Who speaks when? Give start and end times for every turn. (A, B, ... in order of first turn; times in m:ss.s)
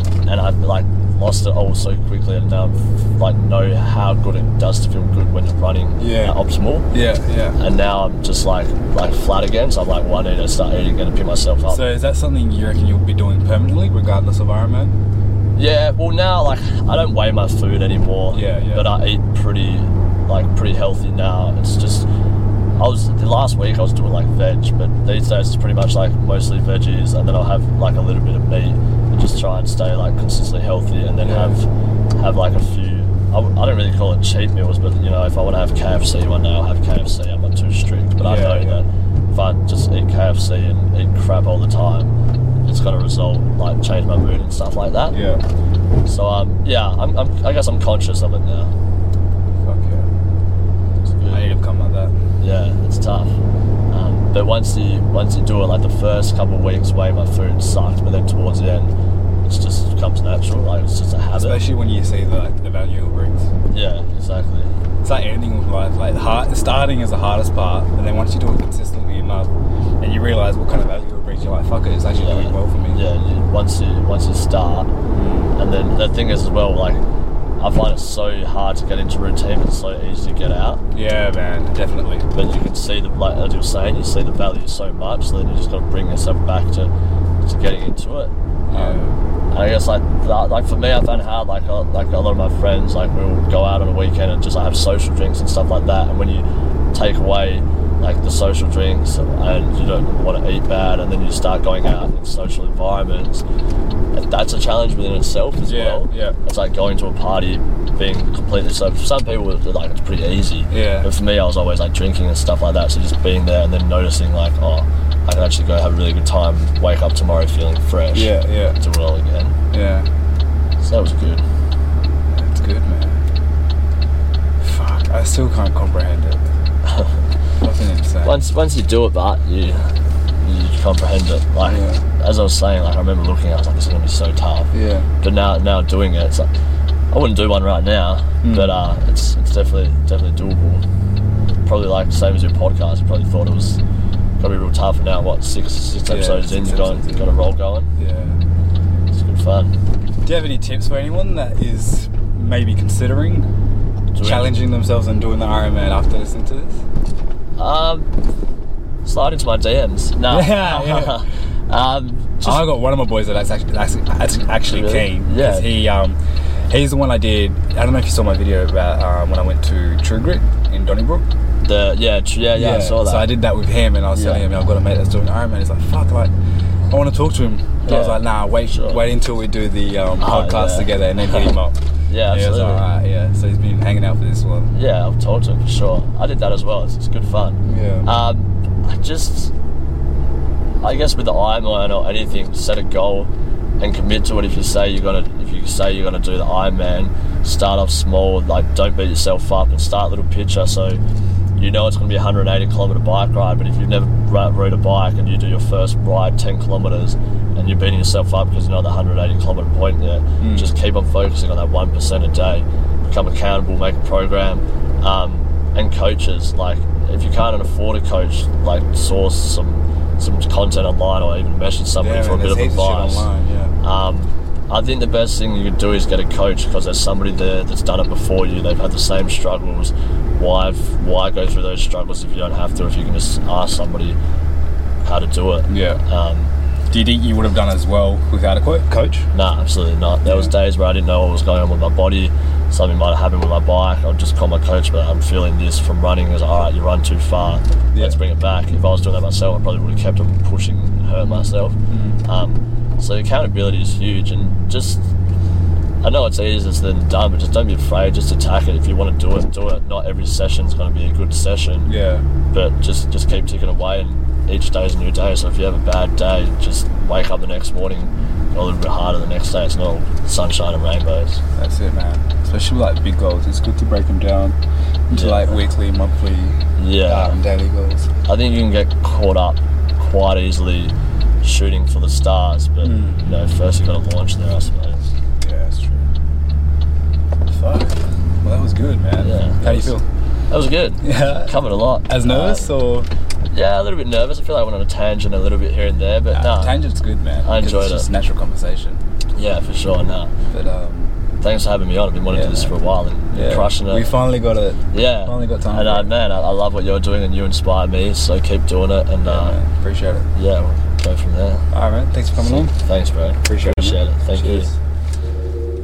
0:00.3-0:06.9 A
0:06.0-0:06.4 B
0:06.9-0:07.6 B
0:07.6-0:11.9 A
0:11.7-0:15.0 B
0:15.6-0:22.1 A
0:18.3-0:18.9 B
0:22.8-0:42.1 A
0:31.2-0:31.6 B
0:38.2-0:38.8 B
0:42.6-0:45.2 A
0:45.1-0:45.4 B
0:46.0-0:48.7 A
0:49.6-0:50.1 B
0:51.1-0:51.5 A
0:51.3-0:52.2 B
0:52.4-0:53.4 A
0:53.9-0:58.9 A
0:59.5-1:01.6 A
1:01.3-1:03.5 B
1:03.7-1:04.7 A
1:05.0-1:13.0 B
1:12.1-1:14.9 A
1:15.1-1:15.5 B
1:15.6-1:17.0 A
1:17.6-1:20.8 A
1:20.9-1:22.3 B
1:22.3-1:26.9 A
1:27.4-1:43.4 A
1:28.7-1:29.2 B
1:44.1-1:59.6 A
1:45.6-1:46.4 B
1:50.7-1:51.1 B
1:58.1-1:58.8 B
1:59.7-2:00.1 B
2:00.8-2:01.4 A
2:02.3-2:03.2 B
2:04.6-2:06.5 B
2:06.9-2:07.1 A
2:07.6-2:08.4 B
2:08.2-2:16.5 A
2:11.6-2:12.0 B
2:14.7-2:15.1 B
2:17.1-2:20.8 A
2:18.4-2:18.8 B
2:21.6-2:23.8 A
2:24.4-2:27.9 A
2:26.0-2:27.3 B
2:28.0-2:28.4 B
2:29.1-2:29.7 A
2:30.2-2:33.5 B
2:34.2-2:34.5 A
2:34.2-2:36.8 B
2:37.6-2:38.1 A
2:39.0-2:42.7 A
2:40.3-2:41.2 B
2:42.4-2:51.3 B
2:44.7-2:45.8 A
2:51.6-2:53.4 A
2:52.6-2:56.3 B
2:54.1-2:54.4 A
2:56.9-3:04.7 B
2:57.8-2:59.0 A
3:00.2-3:01.5 A
3:02.1-3:02.8 A
3:04.7-3:09.5 A
3:07.6-3:08.1 B
3:10.8-3:21.0 A
3:21.6-3:43.3 A
3:30.4-3:30.7 B
3:42.0-3:43.8 B
3:43.8-3:54.2 A
3:55.0-3:56.5 A
3:55.7-3:56.0 B
3:56.9-3:59.3 B
3:59.3-4:15.1 A
4:00.2-4:00.5 B
4:07.9-4:08.2 B
4:11.2-4:12.2 B
4:16.0-4:21.9 A
4:21.8-4:22.2 B
4:22.5-4:31.4 A
4:31.6-4:34.6 B
4:35.1-4:38.1 B
4:35.1-4:35.6 A
4:36.8-4:37.4 A
4:38.2-4:45.1 A
4:42.8-4:43.3 B
4:45.4-4:46.1 B
4:47.5-4:50.0 B
4:49.2-4:49.9 A
4:50.5-4:52.8 A
4:51.0-4:53.1 B
4:53.5-4:56.8 A
4:56.3-4:59.0 B
4:57.4-4:58.1 A
4:59.4-5:00.3 A
5:00.5-5:01.2 B
5:01.4-5:04.1 A
5:02.3-5:02.7 B
5:03.3-5:06.1 B
5:04.9-5:09.6 A
5:09.2-5:10.3 B
5:10.3-5:11.7 A
5:11.7-5:12.7 B
5:12.4-5:14.7 A
5:13.4-5:14.8 B